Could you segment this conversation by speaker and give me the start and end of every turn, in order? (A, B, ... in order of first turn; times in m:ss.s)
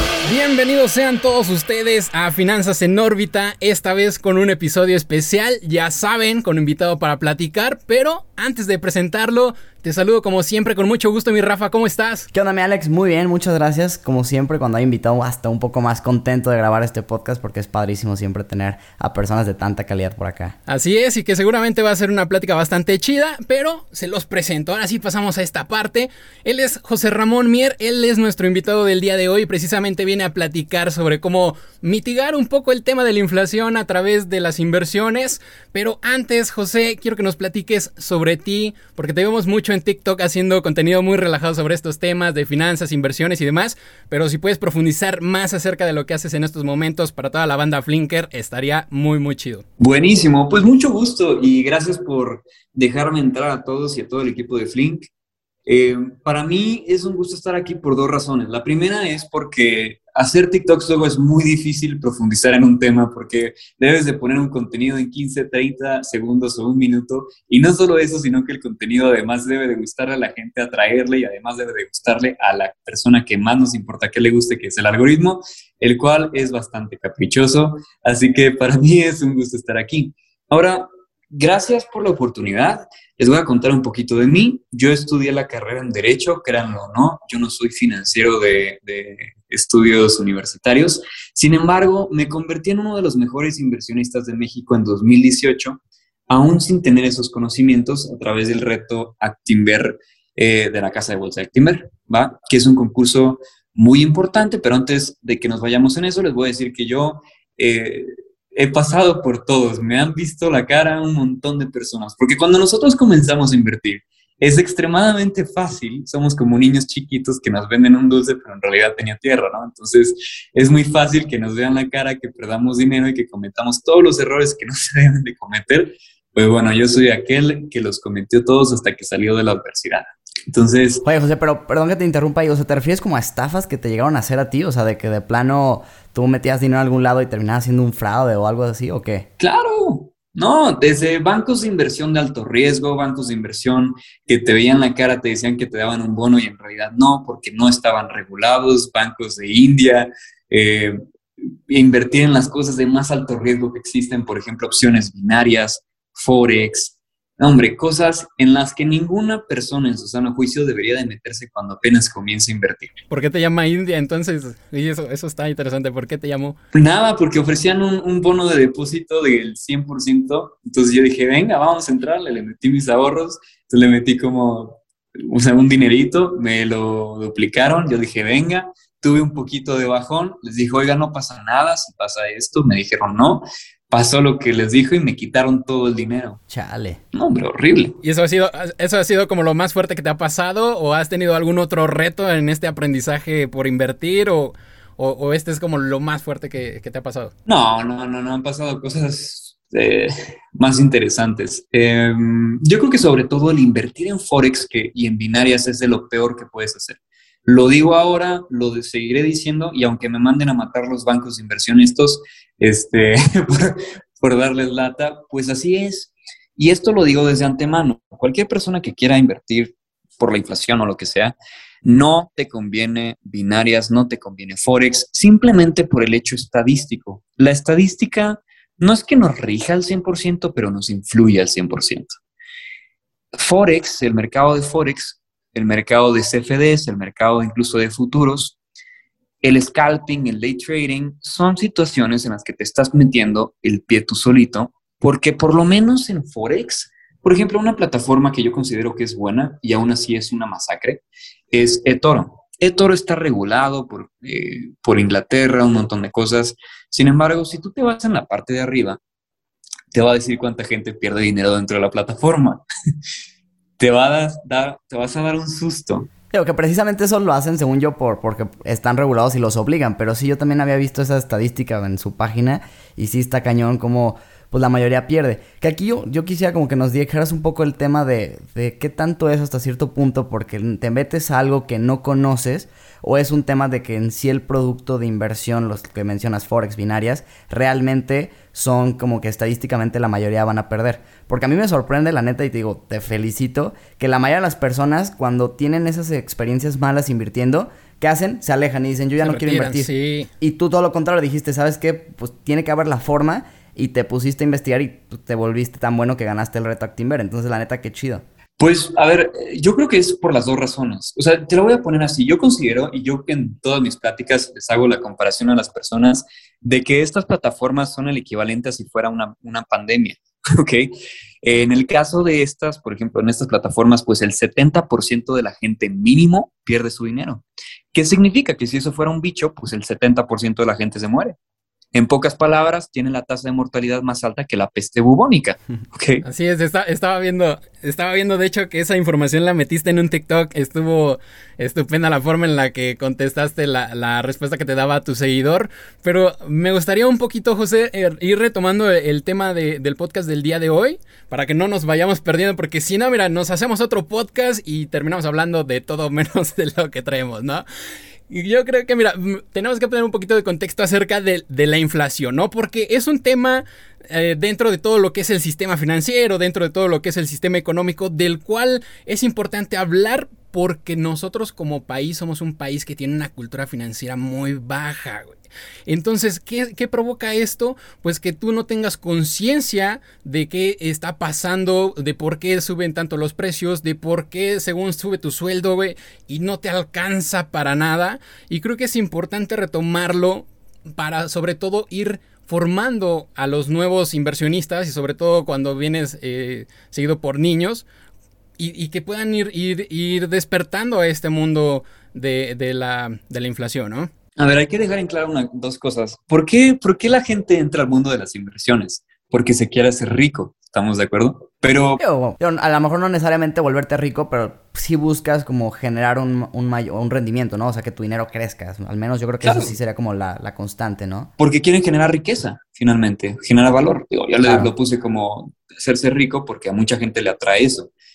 0:00.2-0:12.3 A
0:12.3-0:20.6 B
0:20.7-0:49.6 A
0:49.8-0:55.1 C
0:55.6-2:11.0 C
2:11.0-2:19.3 B
2:19.4-2:31.0 C
2:31.7-2:43.0 C
2:43.1-2:46.6 A
2:46.7-3:06.4 C
3:06.5-3:07.0 B
3:07.1-3:08.0 C
3:08.0-3:17.3 A
3:17.4-3:52.1 C
3:53.4-3:58.6 C
3:59.4-4:19.0 C
4:19.9-4:22.6 C
4:23.8-4:26.1 C
4:26.3-5:08.2 B
4:59.2-5:00.3 A
5:08.6-5:20.9 C
5:21.4-5:31.4 C
5:31.9-5:36.2 C
5:36.2-5:57.6 A
5:58.3-6:37.8 A
6:38.6-6:44.1 A
6:44.4-6:52.0 C
6:52.0-7:01.3 B
6:59.4-6:59.8 C
7:01.4-7:07.9 C
7:04.4-7:04.7 B